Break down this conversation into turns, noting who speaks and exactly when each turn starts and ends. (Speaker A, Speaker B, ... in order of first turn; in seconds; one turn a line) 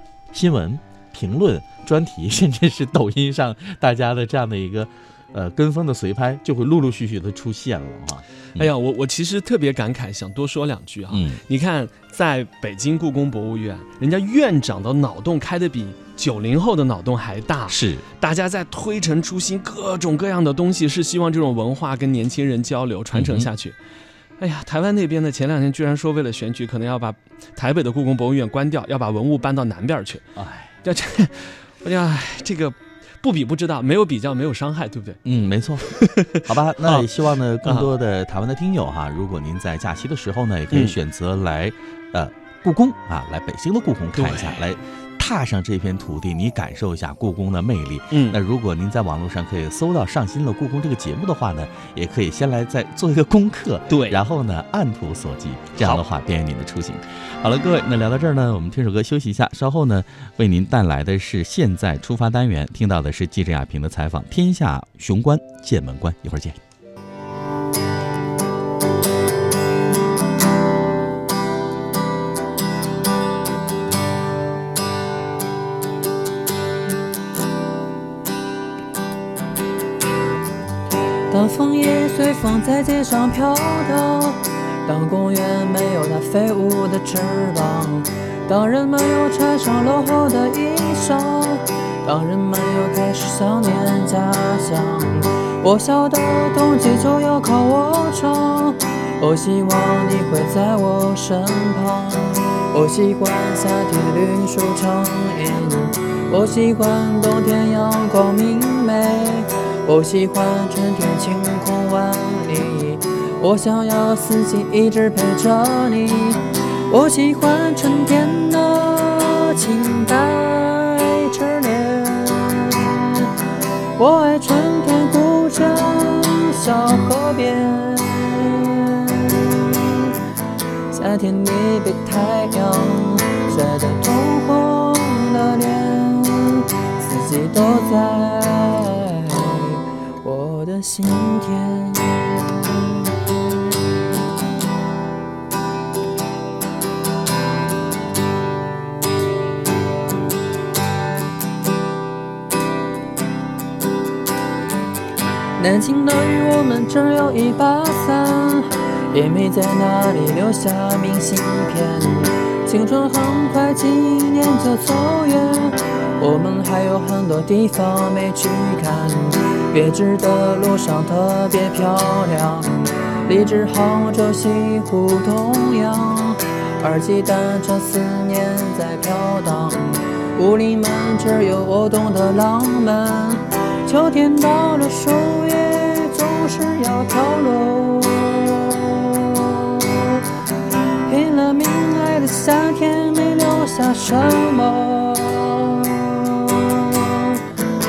Speaker A: 0.3-8.7
Speaker B: 8.6-23.8
Speaker A: 11.1-11.4
Speaker A: 17.7-18.0
Speaker A: 23.1-23.5
Speaker B: 24.4-30.2
Speaker A: 30.4-30.7
Speaker B: 30.8-35.2
Speaker A: 35.2-66.6
Speaker B: 35.9-37.0
Speaker B: 37.6-37.9
Speaker B: 44.1-44.6
Speaker B: 48.1-48.4
Speaker B: 53.9-54.2
Speaker B: 55.8-56.0
Speaker C: 81.3-123.3
Speaker C: 124.0-130.2
Speaker C: 130.9-143.1
Speaker C: 155.6-190.2
Speaker C: 191.1-197.4